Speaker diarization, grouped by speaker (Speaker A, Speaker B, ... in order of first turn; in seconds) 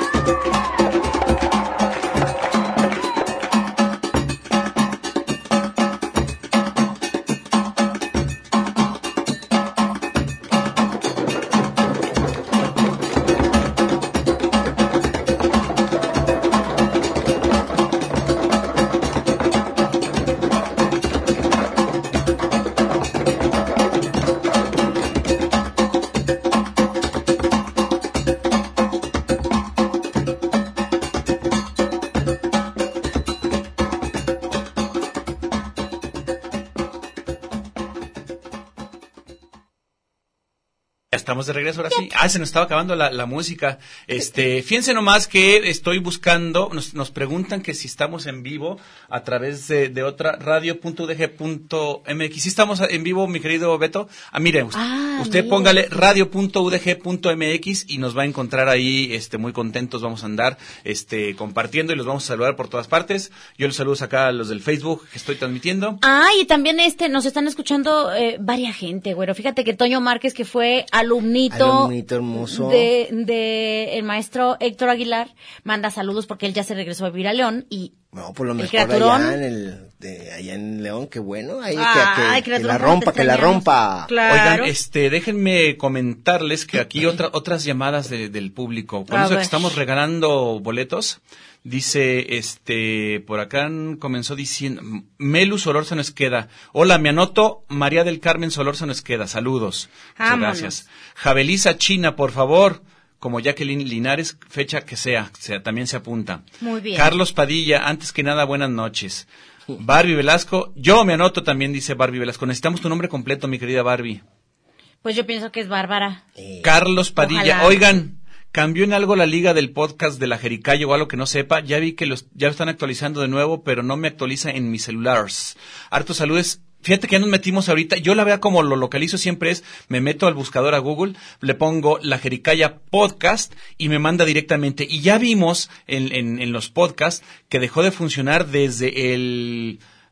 Speaker A: 41.1-66.0, 84.2-114.2, 116.6-139.8
Speaker B: 54.7-56.1, 66.0-77.9, 78.6-79.4, 81.7-84.7, 89.1-89.7, 100.2-100.7, 106.6-107.2, 115.0-116.2, 117.2-117.8
Speaker C: 71.5-72.9, 78.1-84.1, 116.4-116.7